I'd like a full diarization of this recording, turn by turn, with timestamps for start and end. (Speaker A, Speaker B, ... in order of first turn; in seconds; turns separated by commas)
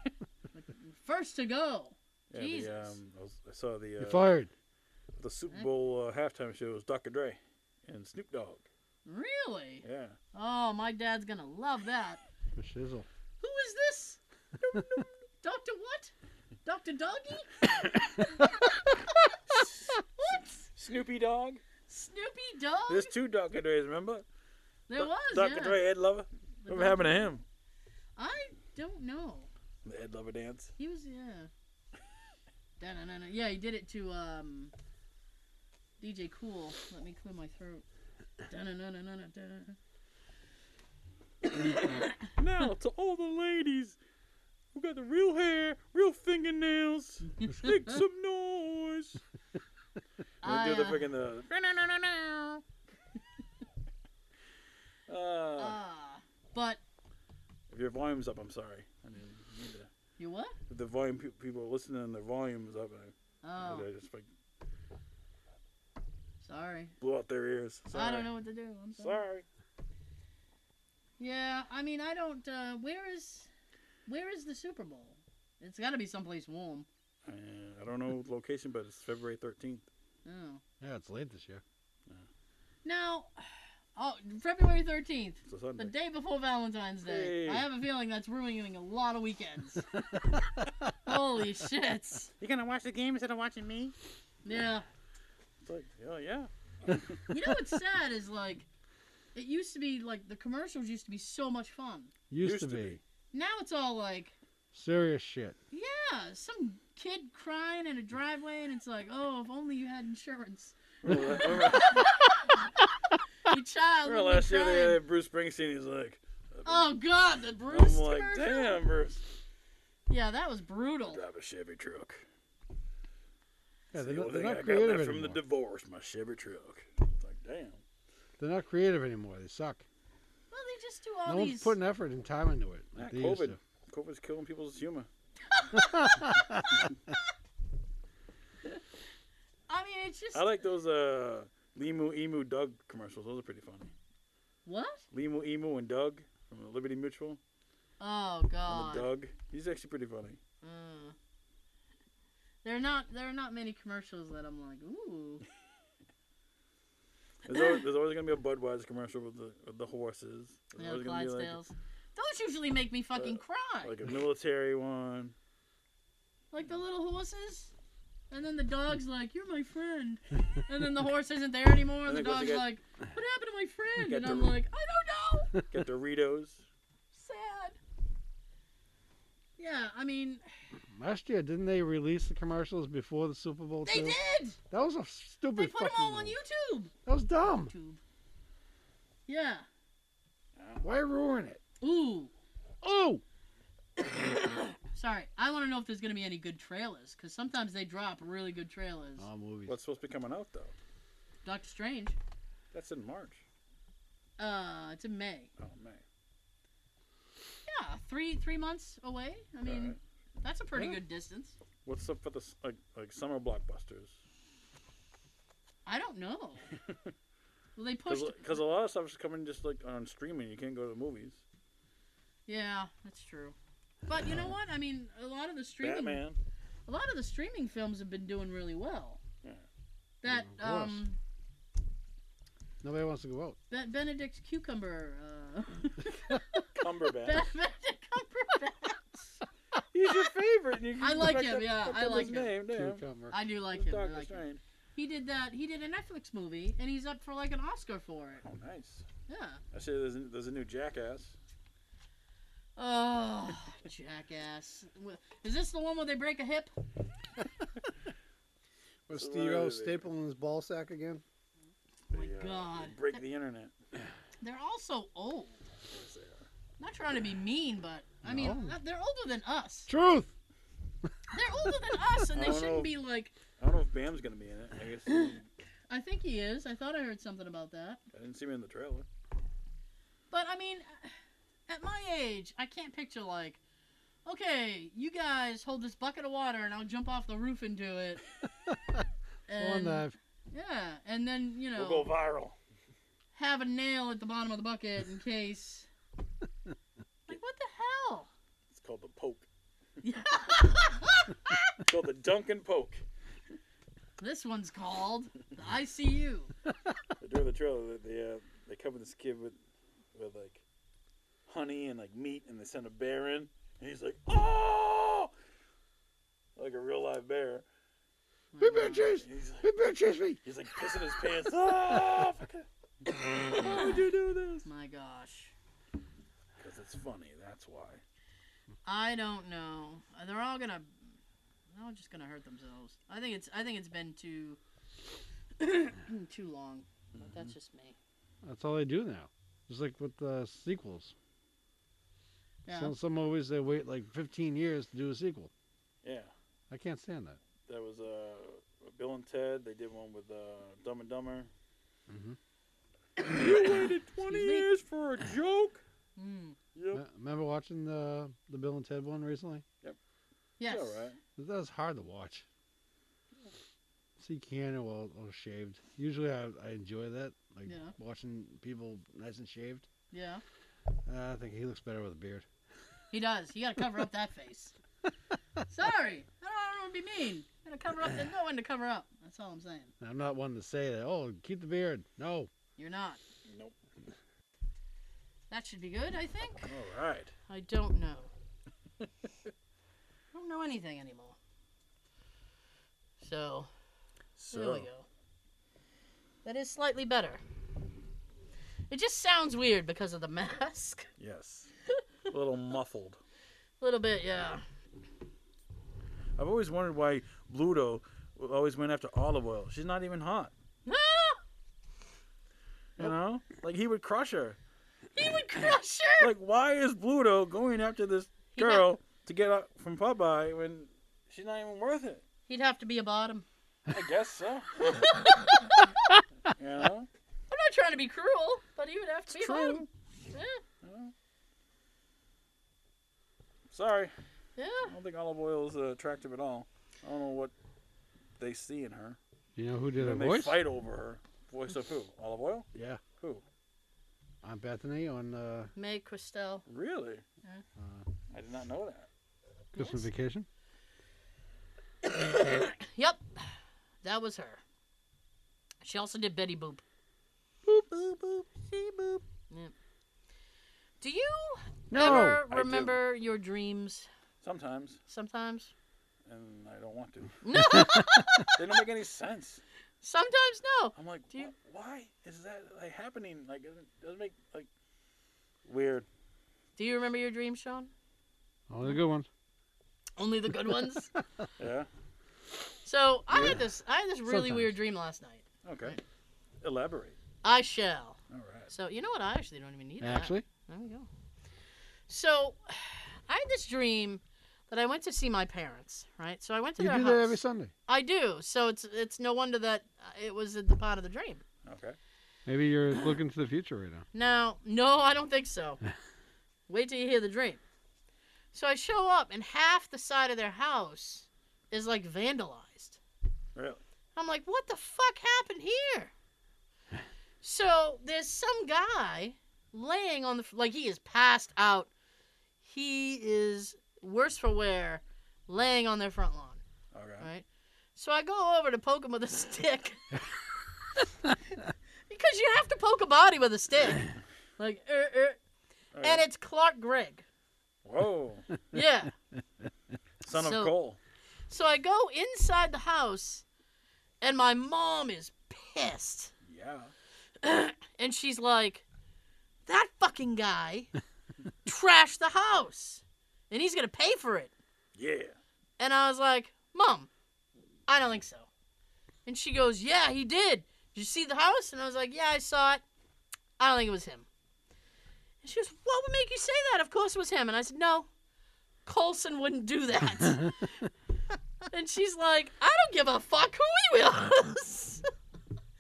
Speaker A: 0.5-3.0, Speaker B: 2.3-4.3, Speaker C: 4.0-4.5, Speaker B: 5.2-8.7, Speaker A: 9.1-12.2, Speaker B: 9.8-10.2, Speaker C: 12.6-13.1, Speaker A: 13.4-16.1, Speaker A: 16.6-20.7, Speaker B: 20.7-21.6, Speaker A: 21.9-23.1, Speaker B: 22.9-24.2, Speaker A: 24.9-25.8, Speaker B: 25.0-27.4, Speaker A: 26.6-27.3, Speaker A: 28.2-29.5, Speaker B: 29.8-30.7, Speaker A: 30.8-31.5, Speaker A: 32.8-34.7, Speaker A: 36.0-37.8, Speaker A: 38.5-39.8, Speaker A: 41.5-42.3, Speaker B: 42.4-44.0, Speaker B: 44.7-49.2, Speaker A: 50.4-51.1, Speaker B: 50.4-52.6, Speaker B: 55.1-55.8, Speaker A: 55.6-56.8, Speaker B: 57.7-59.9, Speaker A: 60.2-60.6, Speaker B: 60.7-64.3, Speaker A: 63.4-63.9, Speaker A: 66.4-66.9, Speaker B: 67.0-68.3, Speaker A: 67.9-69.2, Speaker B: 69.0-69.5, Speaker A: 71.2-73.5, Speaker A: 74.1-76.9, Speaker B: 77.2-79.9, Speaker A: 80.2-80.6, Speaker C: 80.8-81.6, Speaker A: 82.8-89.9, Speaker B: 85.5-85.9, Speaker B: 87.0-87.7, Speaker A: 91.0-92.3, Speaker B: 92.4-94.0, Speaker A: 94.5-94.9, Speaker B: 95.6-97.2, Speaker A: 97.3-98.7, Speaker A: 99.3-102.1, Speaker C: 102.3-103.0, Speaker B: 102.4-103.0, Speaker A: 103.3-104.3, Speaker C: 104.7-105.6, Speaker A: 105.7-112.7, Speaker B: 111.0-112.4, Speaker A: 113.5-115.0, Speaker B: 114.0-116.9, Speaker A: 116.7-118.8, Speaker B: 117.7-119.2, Speaker A: 120.1-121.2, Speaker B: 121.1-122.2, Speaker C: 123.9-125.4, Speaker B: 124.0-127.8, Speaker C: 128.4-129.8, Speaker A: 130.5-131.8, Speaker C: 131.3-133.6, Speaker B: 133.0-135.1, Speaker A: 135.5-136.3, Speaker C: 135.8-136.8, Speaker A: 139.7-140.5, Speaker B: 140.3-143.9, Speaker A: 144.7-145.0, Speaker B: 145.1-147.4, Speaker A: 148.0-149.1, Speaker B: 148.7-150.4, Speaker A: 150.6-151.2, Speaker A: 152.6-155.4, Speaker B: 157.4-161.6, Speaker A: 157.5-157.8, Speaker A: 160.8-164.0, Speaker B: 163.2-165.3, Speaker A: 166.5-167.7, Speaker A: 168.3-175.5, Speaker B: 172.1-172.7, Speaker B: 174.0-174.6, Speaker B: 175.7-176.6, Speaker A: 177.1-177.8, Speaker A: 179.6-180.4, Speaker C: 180.9-184.2, Speaker A: 183.8-184.6, Speaker C: 184.7-186.4, Speaker A: 185.6-186.9, Speaker C: 187.1-187.7, Speaker A: 187.5-188.0, Speaker A: 189.3-189.7, Speaker B: 190.6-190.9, Speaker C: 190.8-191.6, Speaker A: 191.8-192.3, Speaker C: 192.8-193.2, Speaker A: 194.0-199.3, Speaker C: 199.2-199.8, Speaker B: 199.7-200.7, Speaker A: 201.4-202.2, Speaker B: 202.7-203.4, Speaker A: 204.4-205.5, Speaker B: 205.6-206.0, Speaker A: 207.7-211.6, Speaker B: 209.6-210.0, Speaker B: 211.8-214.2, Speaker A: 215.9-216.7, Speaker A: 217.8-218.6, Speaker B: 218.1-221.4, Speaker A: 222.5-223.6, Speaker A: 224.1-226.2, Speaker B: 225.8-226.4, Speaker A: 226.9-229.2, Speaker A: 230.2-231.2, Speaker C: 230.3-231.0, Speaker C: 232.8-233.6, Speaker A: 233.7-239.3, Speaker B: 236.8-237.4, Speaker B: 239.9-243.0, Speaker A: 241.0-242.5, Speaker C: 242.7-243.4, Speaker A: 243.3-244.4, Speaker B: 243.7-244.6, Speaker A: 245.0-248.4, Speaker B: 248.4-249.1, Speaker A: 249.3-249.6, Speaker B: 249.7-251.4, Speaker A: 252.8-256.7, Speaker C: 259.1-261.2, Speaker B: 259.1-260.1, Speaker B: 262.1-263.7, Speaker A: 262.1-263.2, Speaker A: 264.4-265.6, Speaker B: 265.9-266.5, Speaker A: 266.8-269.9, Speaker C: 268.2-268.7, Speaker C: 269.9-270.3, Speaker A: 271.3-273.3, Speaker B: 272.3-272.9, Speaker B: 273.6-275.5, Speaker A: 275.9-278.0, Speaker B: 278.1-279.1, Speaker A: 280.3-281.1, Speaker A: 281.7-283.6, Speaker A: 284.2-288.2, Speaker A: 289.5-292.1, Speaker C: 289.6-290.2, Speaker B: 291.8-292.6, Speaker A: 293.3-295.9, Speaker A: 297.3-298.3, Speaker B: 298.7-299.5, Speaker A: 300.0-301.6, Speaker B: 301.8-303.0, Speaker A: 304.2-306.5, Speaker B: 307.2-309.6, Speaker B: 310.1-310.6, Speaker B: 311.5-315.3, Speaker B: 316.6-317.6, Speaker A: 318.5-319.1, Speaker C: 318.6-320.4, Speaker B: 319.2-319.7, Speaker B: 320.4-322.7, Speaker A: 323.1-324.0, Speaker B: 323.2-324.7, Speaker A: 324.6-325.5, Speaker B: 326.6-328.0, Speaker A: 328.9-331.0, Speaker A: 331.7-334.6, Speaker A: 335.6-338.0, Speaker B: 337.1-337.5, Speaker C: 338.4-341.1, Speaker A: 342.6-342.9, Speaker C: 342.7-345.5, Speaker B: 346.0-346.3, Speaker C: 346.7-347.4, Speaker B: 347.7-351.5, Speaker C: 352.1-352.4, Speaker A: 353.2-353.7, Speaker B: 353.2-355.8, Speaker A: 354.3-354.7, Speaker A: 356.2-356.6, Speaker B: 356.8-357.0, Speaker C: 356.9-359.6, Speaker A: 360.6-361.1, Speaker B: 360.7-361.2, Speaker C: 361.4-362.4, Speaker C: 364.2-369.9, Speaker A: 367.7-367.9, Speaker A: 370.1-370.4, Speaker C: 371.1-372.5, Speaker A: 373.1-374.8, Speaker A: 375.7-379.9, Speaker C: 380.0-382.5, Speaker A: 382.8-383.2, Speaker B: 383.5-383.8, Speaker A: 385.5-386.7, Speaker B: 386.7-387.3, Speaker A: 387.5-388.3, Speaker A: 390.3-391.4, Speaker A: 393.2-393.7, Speaker B: 394.4-394.9, Speaker A: 394.5-395.1, Speaker A: 396.4-397.4, Speaker A: 398.9-401.1, Speaker B: 401.2-401.7, Speaker B: 402.3-403.2, Speaker A: 403.8-404.6, Speaker B: 406.4-410.5, Speaker A: 410.9-411.4, Speaker B: 413.0-414.6, Speaker A: 415.1-416.3, Speaker B: 416.2-422.2, Speaker A: 418.6-418.9, Speaker A: 422.5-423.5, Speaker B: 423.9-425.1, Speaker A: 424.8-426.2, Speaker B: 426.5-427.1, Speaker A: 427.5-430.6, Speaker B: 429.3-429.9, Speaker B: 430.8-431.1, Speaker B: 433.7-434.1, Speaker A: 434.6-434.9, Speaker B: 434.9-437.5, Speaker B: 438.4-439.2, Speaker C: 439.6-440.6, Speaker B: 440.0-442.7, Speaker C: 442.7-443.0, Speaker C: 444.4-445.7, Speaker A: 445.8-446.6, Speaker B: 446.7-447.2, Speaker C: 447.8-448.1, Speaker B: 448.3-449.1, Speaker C: 449.7-450.5, Speaker A: 449.8-450.1, Speaker A: 452.0-454.6, Speaker A: 455.8-456.8, Speaker B: 457.7-458.0, Speaker B: 458.6-459.2, Speaker A: 459.1-459.7, Speaker A: 461.0-464.1, Speaker C: 461.9-462.4, Speaker B: 461.9-463.0, Speaker B: 464.4-465.0, Speaker A: 465.1-465.7, Speaker B: 466.3-467.4, Speaker A: 467.4-468.6, Speaker B: 468.4-469.6, Speaker A: 470.0-471.5, Speaker B: 471.0-474.7, Speaker B: 475.6-476.1, Speaker A: 476.8-477.9, Speaker C: 478.7-479.3, Speaker A: 480.2-481.1, Speaker B: 481.6-481.9, Speaker A: 482.9-486.0, Speaker C: 484.3-484.7, Speaker B: 485.6-486.0, Speaker B: 486.6-487.2, Speaker A: 487.4-488.2, Speaker B: 488.3-488.7, Speaker A: 488.7-491.1, Speaker C: 490.0-490.4, Speaker A: 492.1-501.4, Speaker C: 496.8-497.7, Speaker B: 501.6-502.0, Speaker C: 502.5-504.1, Speaker A: 504.1-505.8, Speaker A: 506.7-507.6, Speaker A: 508.5-513.0, Speaker B: 513.5-513.8, Speaker A: 514.2-516.1, Speaker A: 517.4-521.9, Speaker A: 522.6-526.6, Speaker B: 526.9-527.3, Speaker A: 527.2-527.5, Speaker A: 528.0-530.0, Speaker A: 532.1-535.4, Speaker B: 535.9-536.3, Speaker A: 536.0-537.2, Speaker B: 537.9-538.5, Speaker A: 538.7-539.1, Speaker B: 540.2-541.0, Speaker A: 540.3-540.8, Speaker A: 541.5-543.5, Speaker A: 544.2-546.3, Speaker B: 546.5-546.9, Speaker A: 547.4-548.8, Speaker A: 549.7-550.9, Speaker A: 551.6-554.5, Speaker B: 555.0-555.4, Speaker A: 555.8-557.1, Speaker A: 557.9-558.5, Speaker A: 559.3-562.8, Speaker A: 563.6-564.3, Speaker A: 565.4-568.1, Speaker A: 568.9-570.6, Speaker A: 571.7-575.1